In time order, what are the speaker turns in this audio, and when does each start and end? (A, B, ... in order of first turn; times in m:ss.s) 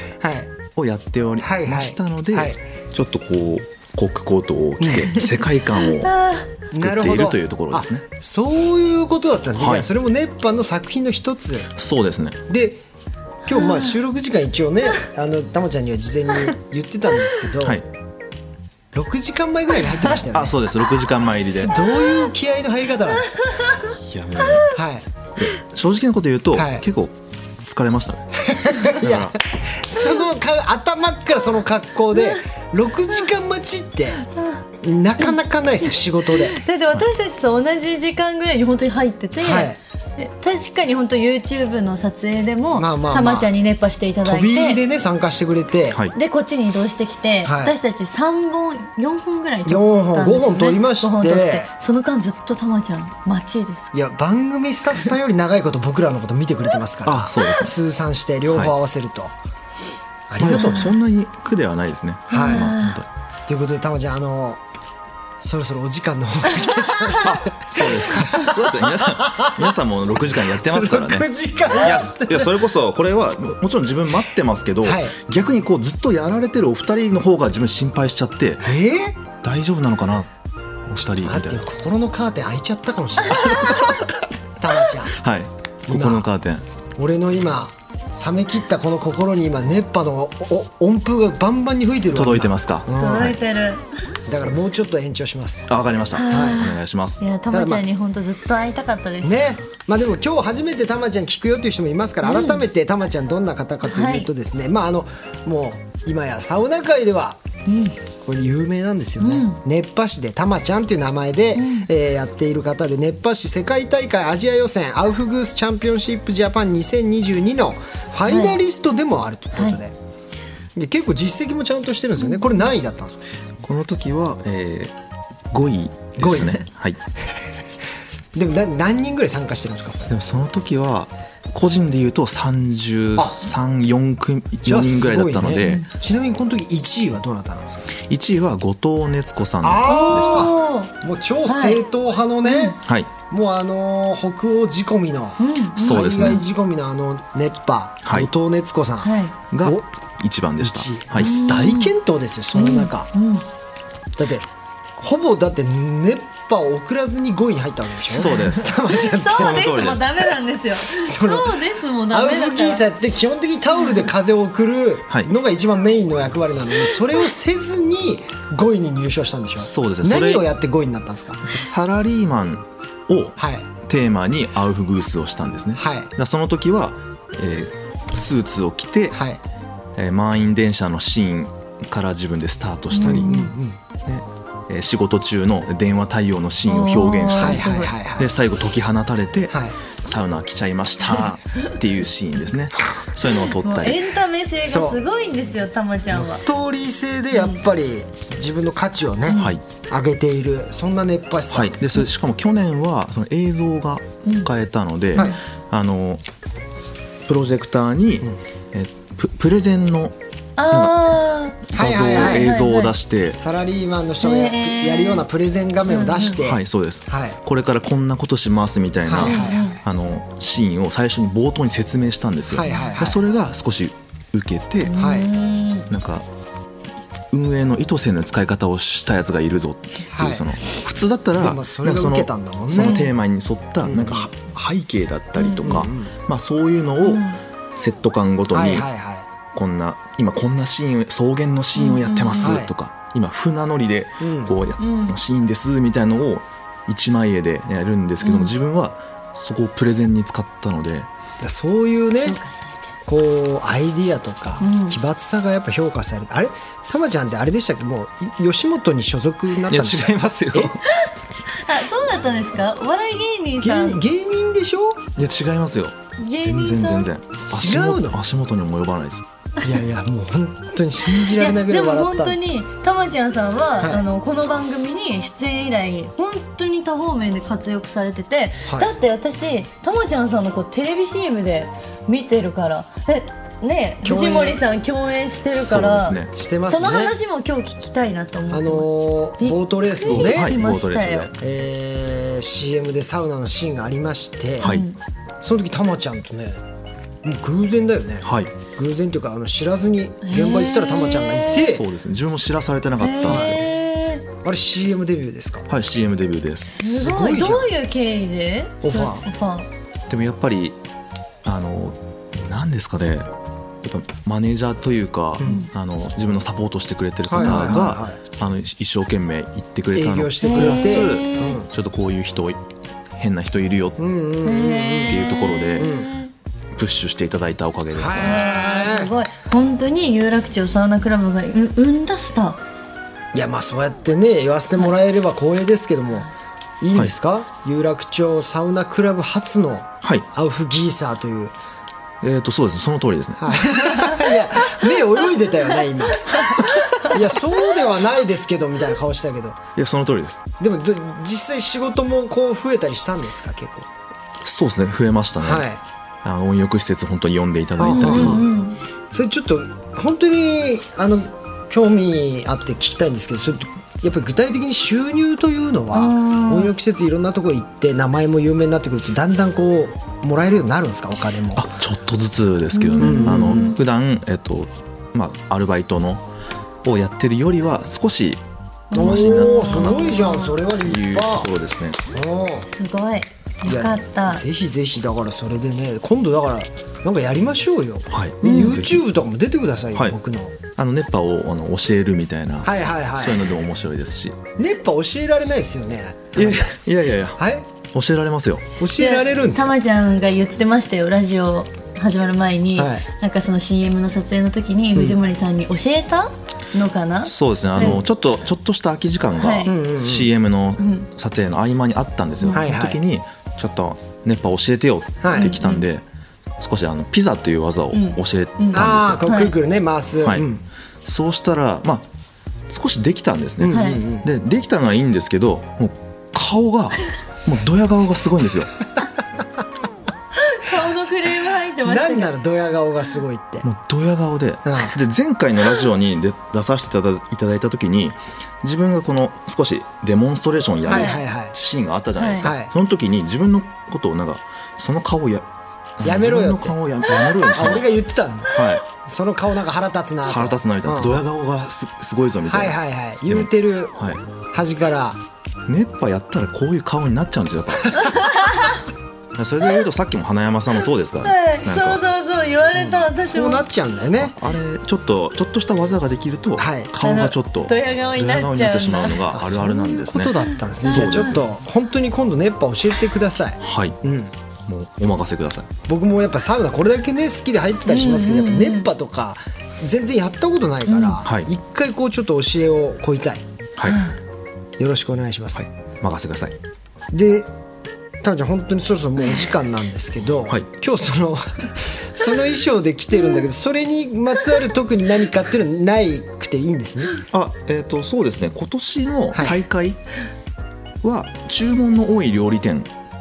0:00.2-0:00.5 A
0:00.7-0:06.2 B
0:01.4-0:02.6 A
0:04.8-0:05.1 A
0:06.0-0:06.4 C
0:06.7-0:11.7 A
0:06.7-0:08.0 B
0:09.6-0:09.9 B
0:11.8-0:12.4 B
0:12.5-0:12.8 A
0:13.4-0:17.8 A
0:13.6-0:13.9 C
0:17.6-0:17.9 B
0:18.9-0:20.6 A
0:20.2-0:21.7 B
0:21.5-0:23.3 A
0:23.9-0:24.7 B
0:24.7-0:25.0 A
0:25.4-0:29.4 B
0:26.5-0:26.8 A
0:28.4-0:34.2 A
0:34.8-0:36.6 A
0:36.5-0:44.8 C
0:39.4-0:39.8 A
0:42.7-0:43.5 A
0:44.2-0:46.0 A
0:46.1-0:53.9 C
0:47.4-0:47.7 A
0:49.6-0:51.7 A
0:53.9-0:59.3 A
0:57.0-0:57.7 B
1:00.3-1:00.9 A
1:00.4-1:03.1 B
1:00.6-1:00.8 C
1:02.3-1:03.0 C
1:02.3-1:02.7 A
1:03.5-1:04.6 A
1:05.4-1:09.7 A
1:07.2-1:18.7 B
1:10.4-1:12.6 A
1:14.8-1:15.1 A
1:18.6-1:19.2 A
1:19.3-1:20.3 B
1:20.9-1:21.6 B
1:21.2-1:23.9 A
1:23.3-1:24.1 B
1:24.6-1:25.2 A
1:25.1-1:26.6 B
1:25.9-1:26.3 A
1:27.0-1:33.4 A
1:32.1-1:33.4 B
1:33.0-1:33.8 C
1:34.2-1:35.7 A
1:35.7-1:37.2 B
1:36.1-1:39.5 C
1:36.2-1:36.7 A
1:37.5-1:37.8 A
1:39.2-1:47.4 A
1:42.2-1:42.6 C
1:43.9-1:44.3 C
1:47.6-1:47.9 C
1:48.2-2:00.0 A
1:49.2-1:49.6 C
1:51.6-1:51.9 C
1:58.3-1:58.6 C
2:00.7-2:03.2 A
2:03.6-2:04.9 B
2:05.5-2:07.0 B
2:06.2-2:06.6 A
2:08.3-2:10.1 A
2:10.1-2:15.8 B
2:13.2-2:13.4 A
2:14.6-2:17.9 A
2:18.0-2:20.5 B
2:19.6-2:22.8 A
2:19.8-2:20.9 C
2:21.4-2:21.8 C
2:22.4-2:22.8 C
2:22.8-2:23.1 B
2:23.3-2:29.8 A
2:25.4-2:26.4 C
2:25.8-2:26.4 B
2:29.0-2:29.3 C
2:29.5-2:31.4 B
2:30.6-2:33.1 A
2:31.2-2:31.9 C
2:32.5-2:33.4 C
2:34.2-2:40.0 A
2:38.1-2:38.8 B
2:38.2-2:42.8 C
2:39.3-2:40.2 B
2:40.8-2:51.5 A
2:49.6-2:50.4 B
2:51.5-2:59.2 B
2:53.4-2:53.7 A
2:55.8-2:56.1 A
2:59.1-2:59.4 A
3:00.0-3:03.4 B
3:02.9-3:03.5 C
3:03.0-3:03.8 A
3:04.0-3:14.1 B
3:06.7-3:07.9 C
3:07.3-3:08.3 A
3:09.5-3:09.7 A
3:13.6-3:16.4 C
3:14.7-3:15.0 A
3:16.1-3:21.8 A
3:17.3-3:17.6 C
3:19.3-3:19.5 C
3:19.3-3:19.6 B
3:21.5-3:26.2 B
3:27.2-3:30.2 B
3:30.6-3:32.9 C
3:30.7-3:31.0 B
3:31.7-3:33.4 B
3:31.7-3:32.6 A
3:33.4-3:37.4 A
3:34.2-3:35.2 C
3:35.9-3:36.4 C
3:36.4-3:45.0 B
3:39.0-3:39.8 A
3:39.2-3:39.8 C
3:42.5-3:43.2 A
3:42.6-3:42.9 C
3:44.8-3:45.9 C
3:44.9-3:45.3 A
3:45.9-3:46.2 B
3:47.3-3:57.2 B
3:50.1-3:50.5 A
3:51.4-3:53.1 A
3:52.8-3:53.1 C
3:53.8-3:54.3 A
3:55.4-3:55.9 C
3:55.6-3:56.1 A
3:57.0-3:57.4 C
3:57.8-3:58.8 B
3:58.5-3:59.3 A
3:59.5-4:11.1 B
4:01.7-4:02.6 C
4:02.4-4:02.7 A
4:04.2-4:04.5 A
4:04.8-4:05.2 C
4:08.2-4:08.5 C
4:11.4-4:12.4 A
4:12.2-4:12.8 C
4:13.0-4:20.7 A
4:14.6-4:15.0 C
4:19.6-4:20.8 B
4:21.6-4:24.0 C
4:23.6-4:25.1 A
4:25.2-4:29.2 B
4:26.2-4:27.1 C
4:27.4-4:28.2 A
4:29.6-4:32.4 A
4:31.2-4:51.3 C
4:33.8-4:34.0 A
4:44.0-4:44.6 A
4:45.5-4:46.3 B
4:46.3-4:47.1 A
4:48.5-4:50.6 A
4:50.0-4:51.3 B
4:51.4-4:54.8 A
4:54.6-4:55.0 C
4:54.6-4:54.9 B
4:55.4-4:56.6 A
4:57.2-5:01.8 A
4:58.2-4:58.5 B
5:00.2-5:01.7 C
5:01.6-5:03.6 B
5:03.0-5:04.2 C
5:03.2-5:03.6 A
5:04.4-5:05.6 A
5:05.7-5:06.8 B
5:06.7-5:09.7 C
5:06.8-5:07.7 A
5:08.8-5:09.2 A
5:10.1-5:10.8 B
5:11.4-5:13.3 B
5:13.8-5:22.6 B
5:15.4-5:15.7 C
5:17.2-5:18.2 A
5:17.4-5:17.7 C
5:19.9-5:21.7 A
5:20.4-5:21.6 C
5:23.1-5:24.0 B
5:24.0-5:25.2 A
5:24.4-5:26.3 C
5:25.0-5:25.9 B
5:25.8-5:26.1 A
5:26.7-5:28.4 B
5:27.9-5:29.1 A
5:28.1-5:32.6 C
5:33.3-5:36.3 A
5:36.8-5:41.5 A
5:42.2-5:43.9 B
5:43.4-5:46.4 A
5:47.0-5:49.6 A
5:49.7-5:50.4 B
5:50.6-5:53.9 A
5:54.4-5:55.7 B
5:55.4-5:55.8 A
5:56.2-5:58.4 B
5:57.8-5:58.5 A
5:57.8-5:58.8 C
5:59.1-6:11.7 A
6:05.9-6:06.7 C
6:11.6-6:16.3 B
6:12.7-6:13.7 C
6:13.0-6:13.7 A
6:16.8-6:18.4 B
6:18.9-6:20.5 C
6:18.9-6:22.0 B
6:19.0-6:21.5 A
6:22.1-6:22.7 A
6:22.7-6:24.4 C
6:23.6-6:30.6 A
6:28.1-6:29.0 B
6:28.4-6:28.8 C
6:30.7-6:34.4 B
6:32.6-6:33.4 A
6:34.6-6:36.7 A
6:36.4-6:38.7 B
6:37.4-6:37.7 A
6:38.8-6:39.7 A
6:39.0-6:48.0 C
6:42.8-6:43.0 A
6:47.2-6:56.0 B
6:47.8-6:48.0 A
6:49.4-6:49.7 C
6:49.6-6:50.3 A
6:50.8-6:51.1 C
6:52.4-6:52.7 C
6:52.5-6:53.0 A
6:55.2-6:55.5 A
6:55.3-6:55.8 C
6:56.6-6:59.3 B
6:57.9-6:59.5 C
6:58.7-7:00.6 A
7:01.0-7:02.1 B
7:02.7-7:08.7 B
7:03.6-7:04.3 A
7:03.7-7:04.0 C
7:10.4-7:12.3 C
7:11.8-7:13.7 A
7:13.6-7:25.4 B
7:14.6-7:14.9 A
7:20.8-7:21.5 A
7:20.9-7:21.2 C
7:22.2-7:22.5 C
7:22.4-7:22.7 A
7:26.0-7:27.9 B
7:26.0-7:26.8 A
7:27.4-7:31.2 A
7:28.5-7:28.8 B
7:30.3-7:34.2 B
7:32.4-7:34.0 A
7:34.5-7:35.2 A
7:35.7-7:38.1 B
7:38.0-7:38.8 C
7:39.3-7:42.0 B
7:41.2-7:43.6 C
7:42.7-7:44.3 A
7:44.2-7:51.4 B
7:46.6-7:46.9 A
7:47.0-7:49.2 C
7:49.3-7:54.3 A
7:50.8-7:51.3 C
7:53.6-7:54.0 B
7:54.7-7:55.7 B
7:55.9-8:03.4 A
7:57.9-7:58.9 C
8:00.9-8:01.2 C
8:01.2-8:01.5 B
8:03.8-8:04.0 B
8:04.8-8:05.6 A
8:05.6-8:06.6 B
8:07.1-8:07.5 A
8:08.2-8:17.1 A
8:17.3-8:20.0 B
8:19.3-8:19.6 A
8:21.0-8:22.9 B